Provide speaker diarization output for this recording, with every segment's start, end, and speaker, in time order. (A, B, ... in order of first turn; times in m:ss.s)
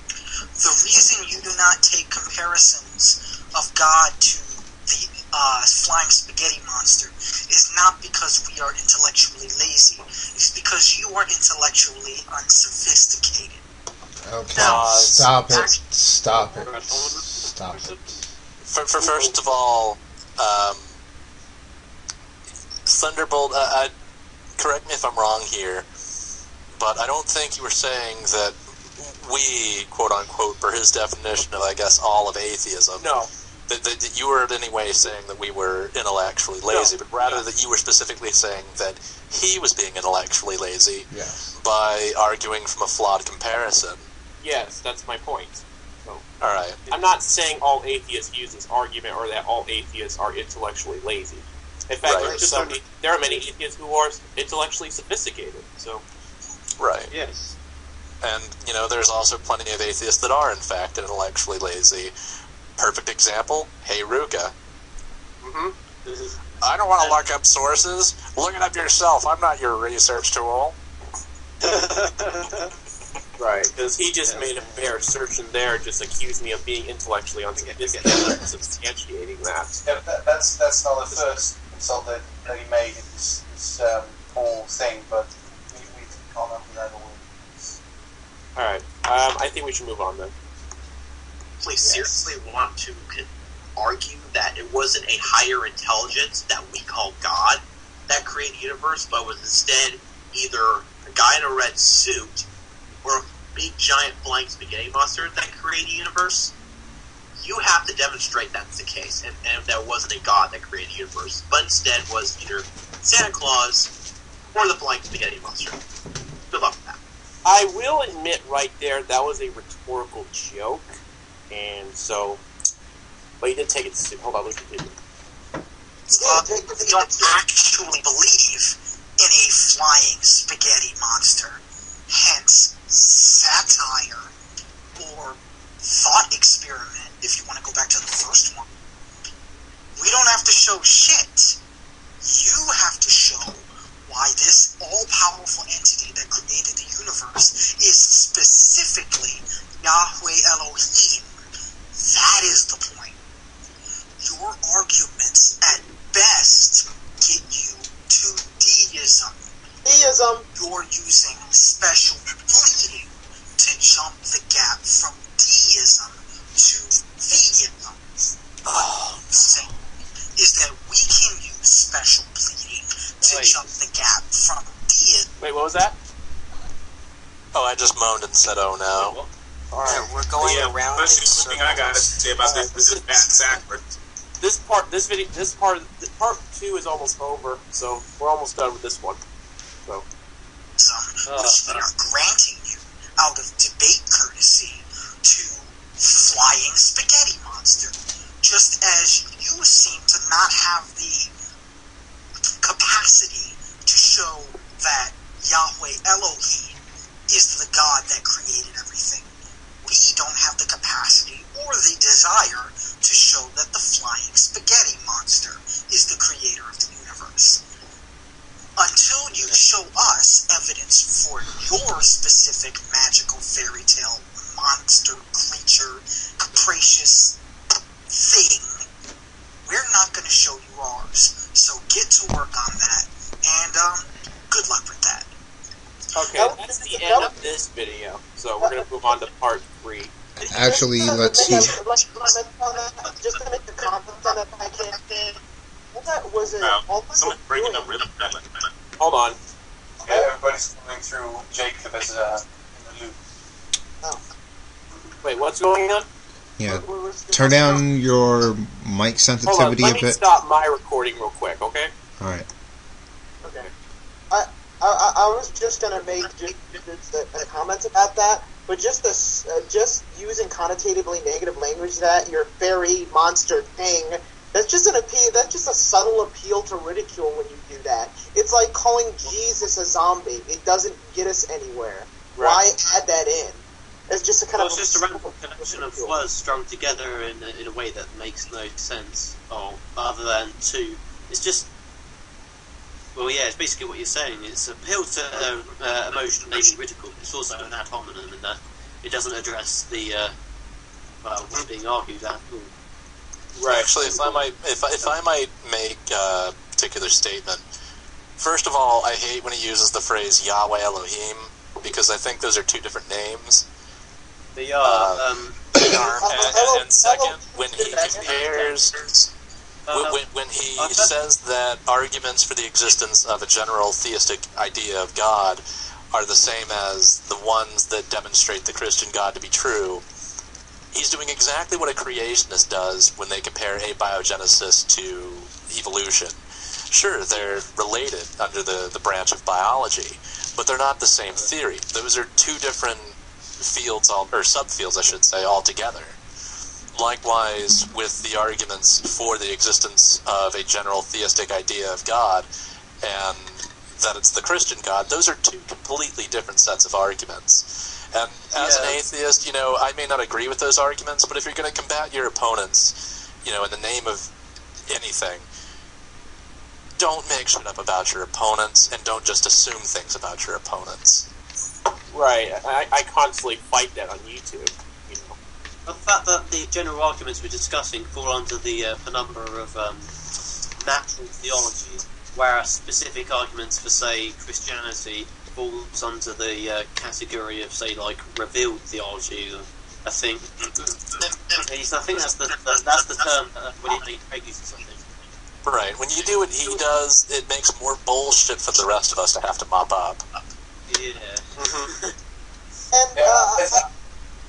0:00.6-0:13.6 A
0:14.2-0:18.2 B
0:14.6-0:15.2 C
0:15.5-0:15.8 D
0:16.3-0:18.2 D
0:18.6-0:20.9 E
0:19.0-0:19.6 D
0:22.8-0:23.9 E
0:24.6-0:25.8 E
0:26.7-0:44.1 E
0:33.0-0:33.3 C
0:36.7-0:37.4 C
0:41.1-0:41.5 B
0:44.4-0:46.2 C
0:46.4-0:46.8 E
0:46.9-0:56.0 C
0:52.0-0:52.4 E
0:52.1-0:53.4 D
0:56.8-0:57.1 E
0:57.1-0:57.6 D
0:58.2-1:02.1 E
1:02.8-1:04.5 E
1:05.4-1:05.7 C
1:06.0-1:06.4 D
1:06.6-1:10.8 E
1:07.0-1:07.2 D
1:11.6-1:12.7 D
1:13.4-1:19.7 C
1:14.2-1:15.1 D
1:17.5-1:18.7 D
1:19.8-1:27.8 F
1:28.6-1:30.3 C
1:31.6-1:42.5 G
1:31.8-1:32.1 C
1:43.0-1:46.5 G
1:47.4-1:53.9 G
1:54.5-1:55.8 G
1:56.5-1:57.0 G
1:57.4-2:01.0 C
2:01.5-2:02.4 C
2:03.4-2:05.0 C
2:06.1-2:14.3 A
2:06.1-2:07.4 H
2:15.0-2:18.7 A
2:20.0-2:21.6 A
2:22.2-2:31.3 A
2:32.0-2:33.2 A
2:34.2-2:39.4 A
2:39.8-2:40.5 H
2:40.5-2:48.0 A
2:48.7-2:49.2 D
2:48.7-2:49.7 A
2:50.4-2:55.3 A
2:53.3-2:53.5 D
2:55.4-2:56.0 C
2:57.5-2:59.2 E
2:58.9-2:59.3 D
2:59.7-3:00.1 C
2:59.8-3:02.1 D
3:00.4-3:03.8 I
3:02.4-3:03.3 C
3:04.4-3:09.2 C
3:10.8-3:21.3 A
3:11.2-3:11.8 D
3:22.6-3:29.3 A
3:29.8-3:37.6 A
3:38.8-3:47.4 A
3:39.3-3:39.6 D
3:48.1-3:48.8 A
3:49.6-3:55.3 A
3:56.1-4:00.1 C
3:56.3-3:57.4 H
3:58.6-3:59.2 H
4:00.4-4:01.8 B
4:00.5-4:05.4 H
4:05.9-4:08.0 H
4:06.6-4:08.4 I
4:09.0-4:09.4 C
4:10.0-4:13.2 F
4:15.2-4:16.0 C
4:16.6-4:20.2 B
4:16.6-4:17.8 H
4:19.4-4:21.9 C
4:22.2-4:22.5 B
4:24.3-4:46.1 H
4:42.3-4:42.6 C
4:44.5-4:51.7 D
4:53.1-5:00.3 D
5:01.2-5:02.7 D
5:03.6-5:03.9 C
5:03.6-5:07.6 E
5:04.1-5:04.4 D
5:08.4-5:13.6 E
5:14.5-5:16.3 D
5:14.8-5:19.3 E
5:15.8-5:18.2 H
5:17.8-5:19.0 D
5:19.8-5:20.2 D
5:19.9-5:30.0 E
5:20.8-5:21.1 D
5:30.9-5:46.2 E
5:46.9-5:52.5 E
5:53.0-6:04.3 E
6:04.9-6:05.5 E
6:07.0-6:11.3 E
6:12.1-6:15.4 C
6:15.8-6:20.1 D
6:20.8-6:35.2 D
6:35.6-6:40.2 E
6:36.6-6:36.9 D
6:40.3-6:42.1 D
6:41.6-6:41.9 C
6:42.9-6:43.8 H
6:43.1-6:43.8 F